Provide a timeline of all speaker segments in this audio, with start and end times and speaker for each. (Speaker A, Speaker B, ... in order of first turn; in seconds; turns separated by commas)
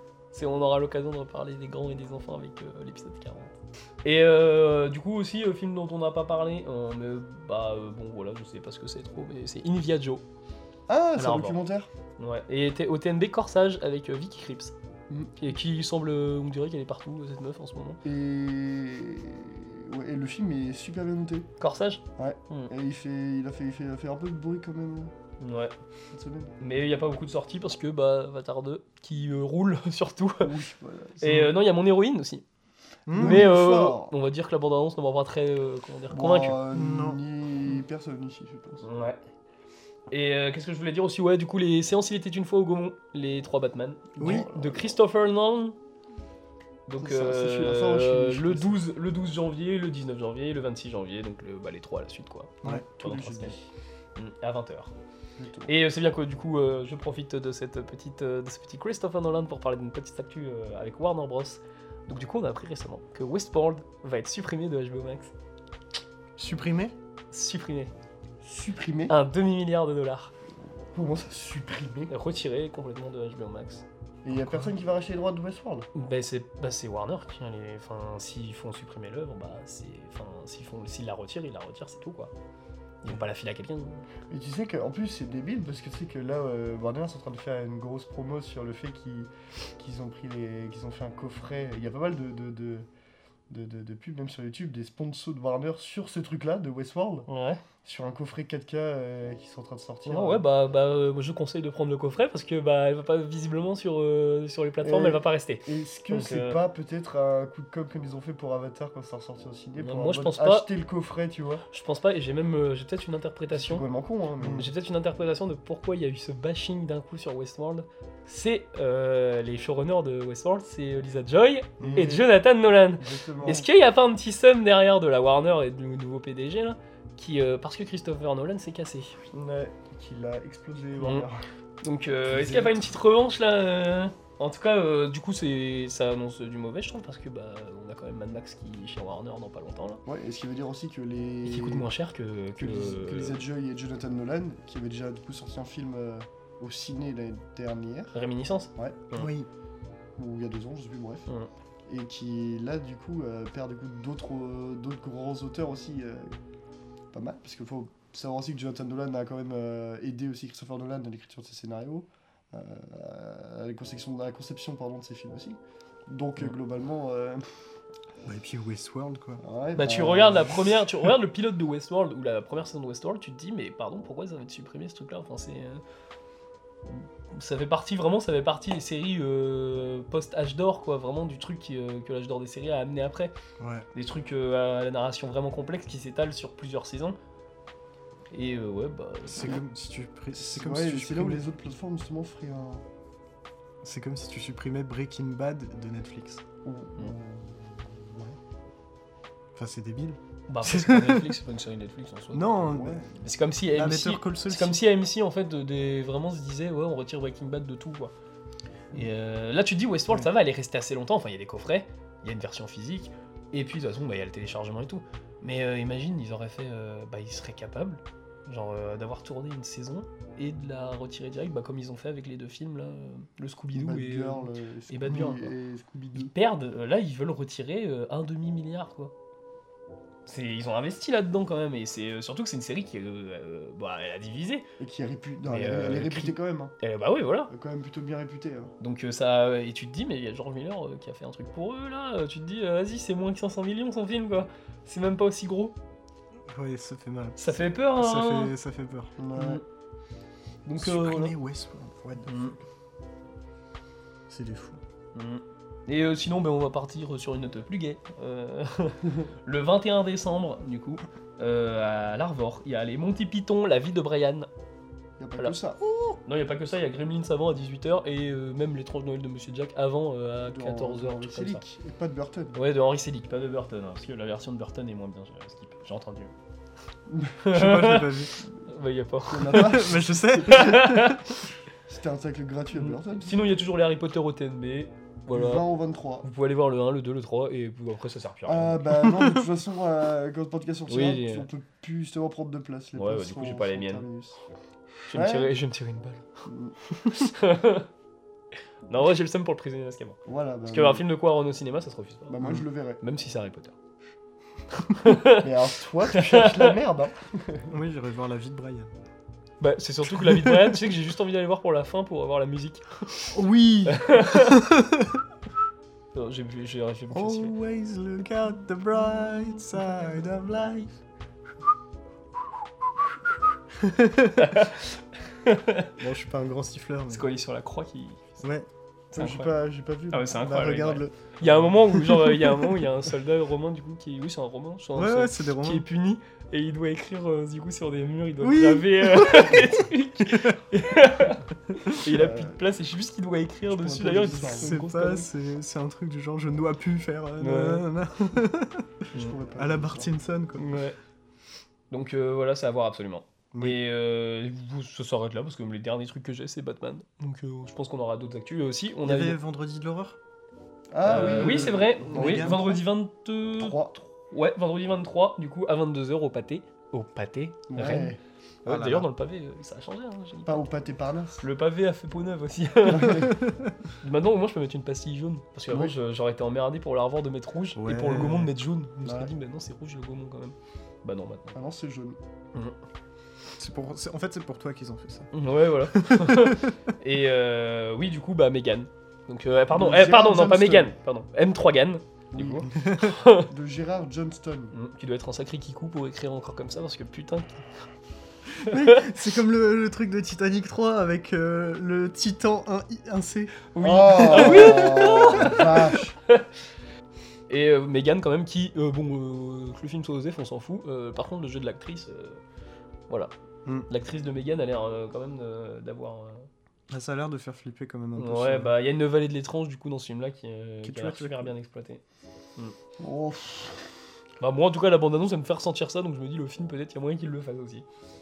Speaker A: 0.3-10.2, Speaker B: 10.9-11.9, Speaker A: 11.2-11.6, Speaker A: 12.2-14.7, Speaker B: 15.1-15.4, Speaker A: 15.4-18.0, Speaker B: 18.0-21.5, Speaker A: 21.6-22.7, Speaker B: 22.2-25.1, Speaker A: 25.4-25.7, Speaker B: 26.1-26.6, Speaker A: 26.6-30.6, Speaker B: 30.4-31.2, Speaker A: 31.2-32.4, Speaker C: 31.2-31.5, Speaker C: 33.1-33.5, Speaker B: 33.1-34.1, Speaker A: 33.2-36.6, Speaker B: 36.1-38.8, Speaker C: 36.7-37.2, Speaker A: 38.8-39.2, Speaker A: 40.1-45.8, Speaker B: 44.2-44.9, Speaker C: 44.2-44.5, Speaker A: 46.9-53.6, Speaker B: 47.0-48.8, Speaker B: 52.6-53.7, Speaker A: 54.2-54.9, Speaker B: 55.4-55.7, Speaker A: 55.7-65.3, Speaker C: 66.4-67.0, Speaker A: 67.3-67.9, Speaker B: 68.4-69.2, Speaker A: 69.1-70.3, Speaker B: 70.9-72.1, Speaker A: 72.1-73.8, Speaker B: 74.2-75.9, Speaker C: 74.3-74.7, Speaker A: 76.0-82.3, Speaker A: 83.0-84.0, Speaker B: 84.3-92.9, Speaker B: 93.5-97.3, Speaker A: 97.3-97.6, Speaker B: 97.8-100.4, Speaker A: 100.1-106.6, Speaker B: 104.8-111.6, Speaker A: 109.8-110.7, Speaker A: 111.7-113.8, Speaker B: 113.5-114.7, Speaker C: 114.4-114.7, Speaker A: 114.5-129.2, Speaker C: 121.8-122.1, Speaker B: 121.8-122.3, Speaker B: 123.0-123.7, Speaker B: 129.3-131.4, Speaker A: 131.0-131.3, Speaker A: 131.8-140.0, Speaker B: 132.3-132.8, Speaker B: 140.1-141.9, Speaker A: 141.4-143.4, Speaker B: 142.6-148.1, Speaker A: 148.1-149.3, Speaker C: 149.2-149.5, Speaker B: 150.2-151.3, Speaker B: 151.9-156.3, Speaker B: 157.1-167.6, Speaker C: 168.2-169.4, Speaker B: 169.4-170.7, Speaker A: 169.8-175.8, Speaker A: 176.9-183.3, Speaker C: 183.6-183.9, Speaker A: 183.9-187.2, Speaker A: 188.3-189.6, Speaker C: 189.3-191.5, Speaker B: 190.3-192.8, Speaker C: 193.8-196.4, Speaker B: 196.7-198.4, Speaker C: 199.6-201.4, Speaker A: 200.5-208.1, Speaker C: 202.3-203.1, Speaker B: 202.7-203.0, Speaker C: 203.7-204.8, Speaker A: 208.9-225.5, Speaker B: 223.7-226.3, Speaker A: 226.2-229.1, Speaker A: 230.3-234.7, Speaker B: 234.8-236.8, Speaker A: 235.5-237.5, Speaker B: 237.5-238.7, Speaker A: 238.8-245.8, Speaker C: 246.5-249.1, Speaker A: 247.4-248.5, Speaker B: 249.2-249.6, Speaker A: 249.3-249.6, Speaker A: 250.7-251.3, Speaker C: 250.8-252.6, Speaker A: 252.3-252.6, Speaker C: 254.3-254.8, Speaker A: 255.2-264.5, Speaker B: 265.2-265.8, Speaker A: 266.2-271.6, Speaker B: 270.5-272.6, Speaker A: 272.5-276.3, Speaker B: 277.1-277.4, Speaker A: 277.4-279.8, Speaker C: 277.5-278.4, Speaker B: 279.3-280.9, Speaker C: 279.5-281.4, Speaker A: 280.4-281.4, Speaker B: 281.9-283.4, Speaker A: 282.7-285.7, Speaker B: 285.3-286.3, Speaker A: 286.2-289.2, Speaker B: 288.5-294.4, Speaker A: 290.9-291.5, Speaker A: 292.9-294.0, Speaker A: 295.1-296.3, Speaker B: 295.1-295.5, Speaker B: 296.5-296.8, Speaker A: 297.0-297.9, Speaker A: 298.9-302.4, Speaker B: 300.3-301.0, Speaker B: 302.3-303.0, Speaker C: 302.4-302.6, Speaker A: 303.0-303.8, Speaker A: 304.8-305.5, Speaker B: 305.3-307.7, Speaker A: 306.1-306.7, Speaker C: 307.7-308.9, Speaker A: 309.6-313.4, Speaker C: 310.1-310.8, Speaker C: 313.3-315.2, Speaker A: 313.9-314.6, Speaker A: 316.1-317.5, Speaker C: 317.1-320.9, Speaker C: 323.8-324.6, Speaker A: 324.4-325.9, Speaker C: 326.0-327.3, Speaker A: 327.1-328.4, Speaker C: 328.4-328.7, Speaker A: 329.1-329.6, Speaker B: 329.1-330.4, Speaker A: 330.1-345.3, Speaker C: 330.4-332.9, Speaker C: 334.9-335.9, Speaker C: 338.4-340.6, Speaker C: 341.7-342.0, Speaker B: 342.1-342.6, Speaker B: 343.7-344.8, Speaker C: 344.4-350.8, Speaker A: 347.4-347.9, Speaker B: 349.1-350.1, Speaker A: 350.6-351.0, Speaker A: 351.9-359.4, Speaker C: 353.5-353.8, Speaker C: 359.0-360.2, Speaker B: 360.9-362.8, Speaker A: 361.0-363.8, Speaker C: 361.1-362.8, Speaker B: 363.6-364.1, Speaker A: 364.3-370.7, Speaker B: 367.7-368.2, Speaker C: 368.7-369.1, Speaker B: 370.5-371.4, Speaker A: 371.4-373.4, Speaker B: 372.9-373.4, Speaker C: 373.4-373.8, Speaker A: 374.0-381.6, Speaker C: 377.8-378.5, Speaker B: 379.0-379.3, Speaker B: 381.5-382.2, Speaker C: 383.6-386.8, Speaker A: 385.3-393.5, Speaker B: 389.7-390.9, Speaker B: 392.3-392.7, Speaker C: 392.8-393.2, Speaker B: 393.4-394.7, Speaker A: 394.7-397.7, Speaker C: 398.6-405.7, Speaker A: 398.7-399.0, Speaker A: 403.7-406.5, Speaker B: 403.8-406.2, Speaker A: 407.5-412.4, Speaker A: 413.9-416.5, Speaker C: 416.9-418.7, Speaker A: 418.2-422.0, Speaker C: 420.8-421.5, Speaker B: 423.0-423.9, Speaker A: 424.4-427.9